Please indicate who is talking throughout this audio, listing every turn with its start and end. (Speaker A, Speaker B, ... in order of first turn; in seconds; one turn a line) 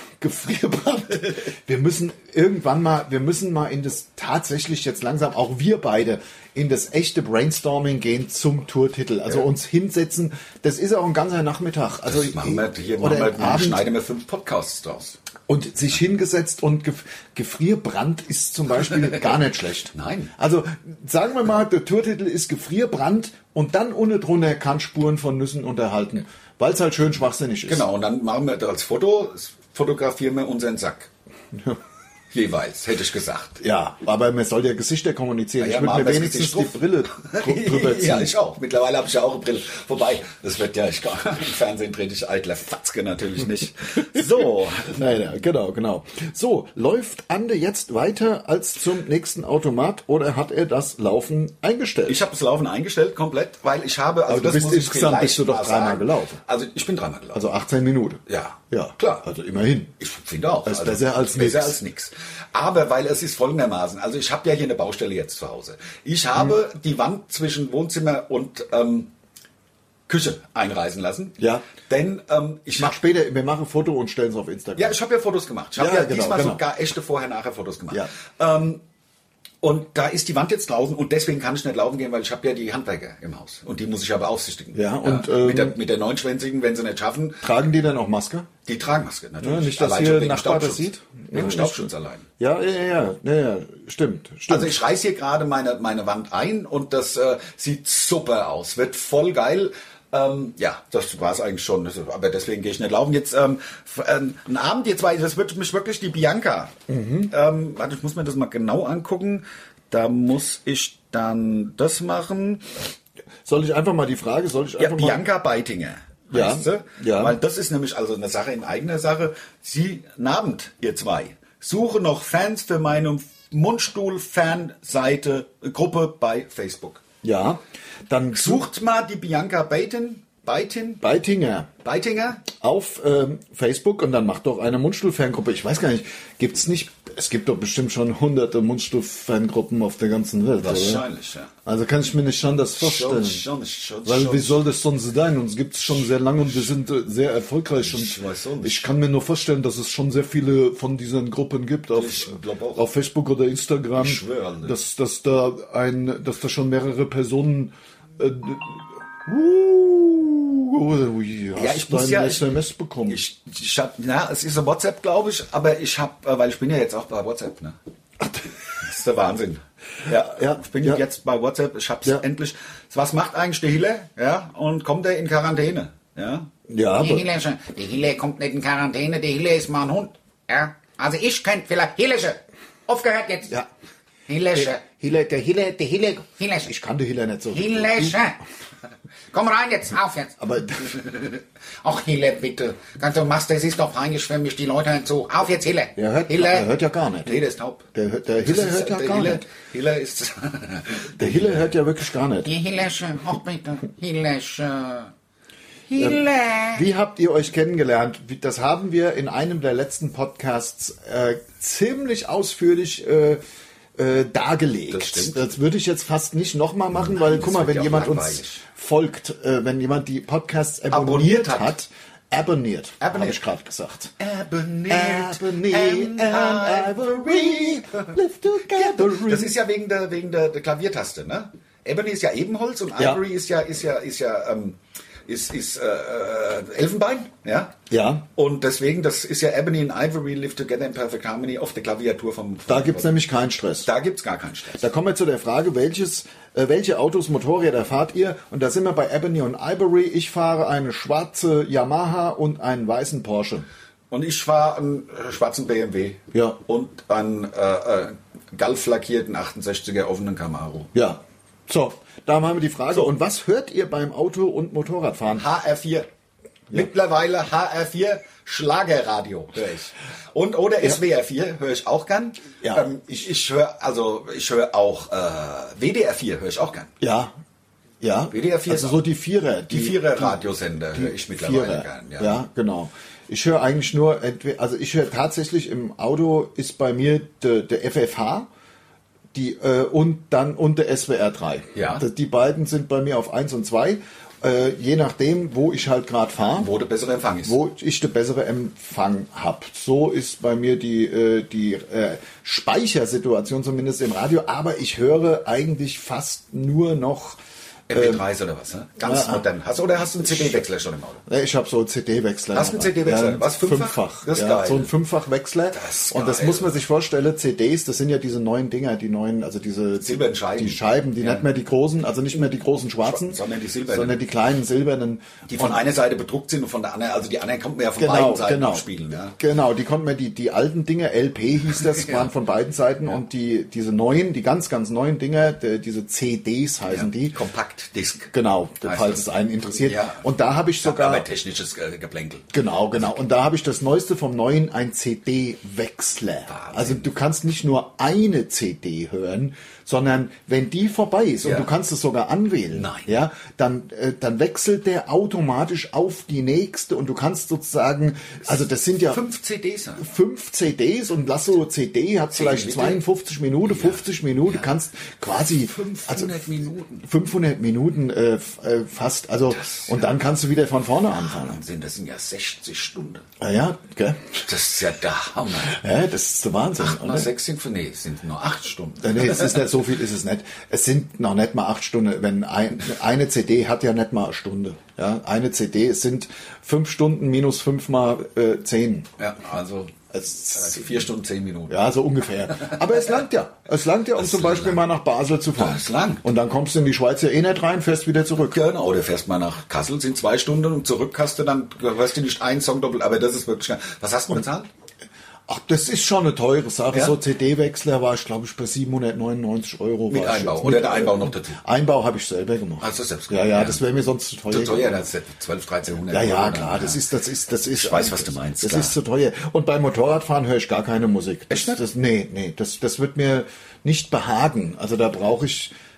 Speaker A: 0.2-13.8
Speaker B: 12.0-15.2
Speaker A: 15.5-27.9
Speaker B: 19.9-20.3
Speaker B: 27.7-31.1
Speaker B: 32.3-33.6
Speaker A: 33.6-38.3
Speaker B: 35.6-45.0
Speaker A: 44.9-52.2
Speaker B: 52.1-57.5
Speaker A: 54.3-56.4
Speaker A: 57.3-59.9
Speaker B: 58.3-59.2
Speaker B: 60.0-69.1
Speaker A: 60.6-61.8
Speaker B: 70.1-73.0
Speaker A: 71.4-71.6
Speaker A: 72.7-75.0
Speaker B: 74.8-78.8
Speaker A: 75.8-76.6
Speaker B: 79.6-87.5
Speaker A: 84.7-85.8
Speaker A: 87.4-88.5
Speaker B: 88.7-92.3
Speaker A: 89.4-94.8
Speaker B: 94.5-106.8
Speaker A: 106.9-107.3
Speaker B: 107.3-112.8
Speaker A: 113.4-115.2
Speaker B: 114.8-127.0
Speaker A: 116.3-117.3
Speaker A: 127.2-128.7
Speaker B: 128.3-131.0
Speaker A: 131.0-131.7
Speaker B: 131.8-132.5
Speaker A: 132.5-141.0
Speaker B: 140.6-141.5
Speaker A: 141.7-143.4
Speaker B: 142.8-144.6
Speaker A: 144.0-163.2
Speaker B: 147.8-148.8
Speaker B: 151.9-152.8
Speaker B: 153.9-154.8
Speaker B: 161.6-162.5
Speaker B: 163.1-167.8
Speaker B: 168.8-176.5
Speaker A: 170.2-171.0
Speaker A: 176.7-177.2
Speaker C: 177.0-183.5
Speaker C: 184.3-184.9
Speaker A: 184.5-188.2
Speaker C: 185.7-186.7
Speaker C: 187.5-188.4
Speaker C: 189.3-190.4
Speaker A: 190.4-191.0
Speaker C: 190.9-196.7
Speaker A: 196.0-197.4
Speaker B: 197.2-197.8
Speaker A: 197.9-199.4
Speaker B: 198.4-201.7
Speaker A: 201.2-202.5
Speaker C: 202.4-205.1
Speaker C: 205.9-206.8
Speaker A: 206.7-213.4
Speaker A: 213.9-224.1
Speaker B: 214.9-215.5
Speaker B: 216.9-218.6
Speaker B: 220.9-221.8
Speaker B: 223.0-223.4
Speaker B: 224.2-228.1
Speaker A: 224.9-229.6
Speaker B: 228.7-243.2
Speaker A: 237.9-238.2
Speaker A: 242.7-243.9
Speaker B: 243.8-244.9
Speaker A: 244.8-253.7
Speaker B: 254.1-260.9
Speaker A: 256.3-256.6
Speaker A: 260.9-265.4
Speaker B: 265.3-266.1
Speaker B: 266.7-276.9
Speaker A: 272.6-273.3
Speaker A: 277.0-277.3
Speaker A: 278.0-280.3
Speaker B: 278.3-279.0
Speaker B: 279.7-282.4
Speaker A: 280.9-288.5
Speaker A: 289.3-296.7
Speaker B: 291.7-292.0
Speaker B: 296.6-297.6
Speaker A: 297.4-307.4
Speaker B: 307.9-311.2
Speaker A: 307.9-308.2
Speaker A: 309.0-309.4
Speaker A: 310.2-310.6
Speaker A: 311.2-325.8
Speaker B: 312.5-314.9
Speaker B: 315.7-316.7
Speaker B: 320.0-321.4
Speaker B: 323.0-324.2
Speaker B: 325.5-329.4
Speaker A: 328.0-328.9
Speaker A: 329.4-337.4
Speaker B: 332.0-332.3
Speaker B: 336.9-339.2
Speaker A: 338.3-341.2
Speaker B: 339.8-340.2
Speaker B: 340.8-342.5
Speaker A: 342.5-359.2
Speaker B: 346.5-347.1
Speaker B: 351.4-351.7
Speaker B: 352.7-353.1
Speaker B: 359.0-360.0
Speaker A: 360.0-371.6
Speaker B: 362.3-363.0
Speaker B: 363.6-364.7
Speaker B: 365.6-367.1
Speaker B: 369.5-370.1
Speaker B: 371.2-373.3
Speaker A: 373.4-374.2
Speaker B: 374.4-375.8
Speaker A: 375.6-377.3
Speaker B: 376.8-379.6
Speaker A: 379.0-389.1
Speaker B: 389.2-391.8
Speaker A: 390.1-390.8
Speaker A: 391.7-398.6
Speaker B: 392.5-392.8
Speaker B: 394.1-394.8
Speaker B: 395.5-396.2
Speaker B: 398.4-404.7
Speaker A: 405.5-415.0
Speaker B: 410.1-411.6
Speaker B: 412.8-413.8
Speaker B: 414.5-417.0
Speaker A: 416.1-425.7
Speaker B: 417.7-418.9
Speaker B: 421.5-421.8